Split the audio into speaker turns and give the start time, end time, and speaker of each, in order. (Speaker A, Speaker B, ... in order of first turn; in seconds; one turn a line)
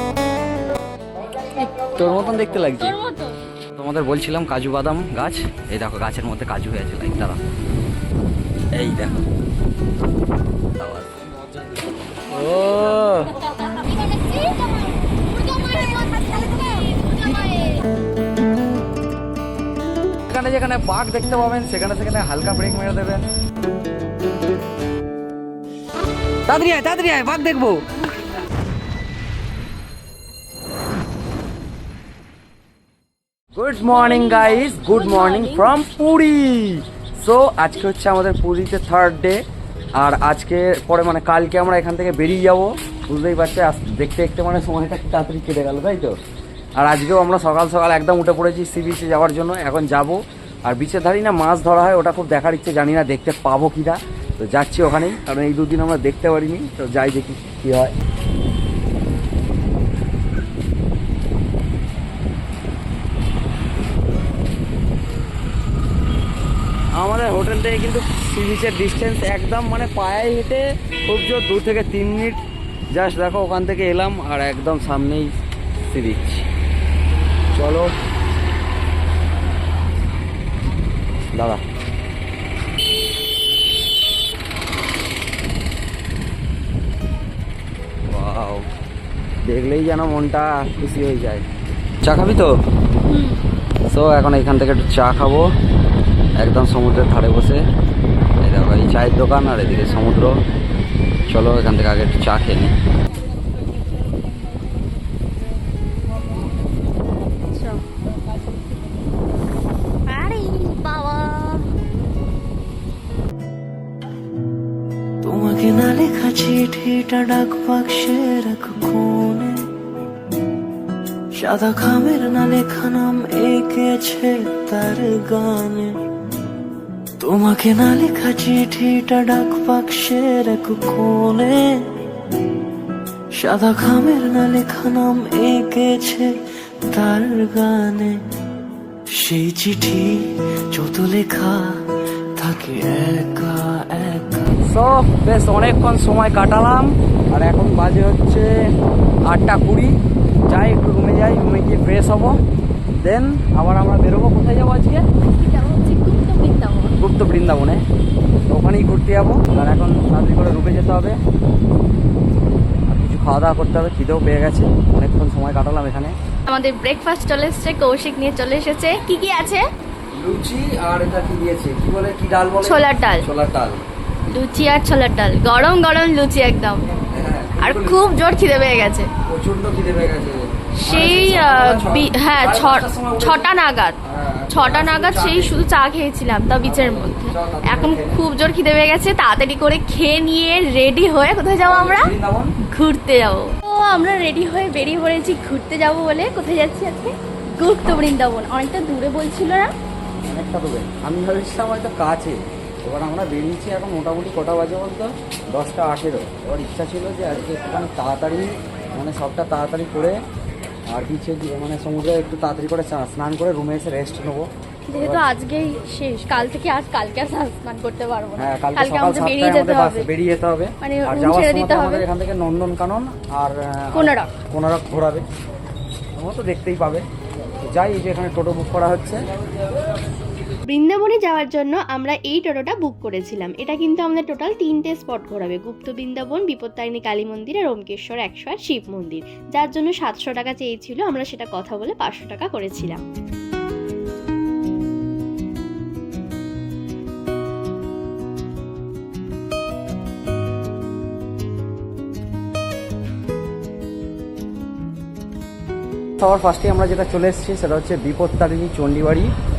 Speaker A: 1.5-3.4
Speaker B: 1.9-3.0
Speaker B: 3.7-7.4
Speaker B: 8.7-9.1
Speaker B: 10.8-11.2
Speaker B: 12.3-13.3
Speaker A: 12.4-17.8
Speaker B: 20.3-23.2
Speaker B: 26.5-27.8
Speaker B: 33.5-39.4
Speaker A: 33.9-35.7
Speaker B: 40.0-46.2
Speaker B: 46.8-57.9
Speaker B: 66.9-76.5
Speaker B: 77.5-77.9
Speaker B: 81.3-81.6
Speaker B: 88.1-88.7
Speaker B: 89.5-91.4
Speaker B: 92.0-92.5
Speaker A: 93.1-93.4
Speaker B: 93.8-95.5
Speaker B: 96.4-97.6
Speaker B: 98.4-100.4
Speaker B: 101.3-102.7
Speaker A: 107.5-107.8
Speaker A: 110.1-111.6
Speaker C: 115.2-119.6
Speaker C: 121.3-126.0
Speaker C: 127.2-131.9
Speaker C: 133.3-138.2
Speaker C: 139.1-144.6
Speaker B: 144.6-148.5
Speaker B: 149.2-149.9
Speaker B: 150.5-152.4
Speaker B: 153.0-155.1
Speaker A: 155.3-156.9
Speaker B: 157.0-157.8
Speaker B: 158.5-161.2
Speaker B: 162.9-166.2
Speaker A: 166.5-169.6
Speaker B: 170.1-173.8
Speaker A: 172.6-173.2
Speaker A: 174.3-176.8
Speaker B: 177.1-178.0
Speaker A: 177.6-179.1
Speaker B: 179.3-185.6
Speaker A: 180.8-184.0
Speaker A: 184.5-199.7
Speaker B: 186.6-188.2
Speaker B: 191.6-192.5
Speaker B: 200.2-210.2
Speaker B: 210.9-215.2
Speaker A: 214.9-220.1
Speaker B: 218.4-225.2
Speaker A: 220.8-222.1
Speaker A: 223.9-224.3
Speaker B: 226.2-227.1
Speaker B: 227.6-229.3
Speaker D: 230.7-243.0
Speaker B: 256.2-259.3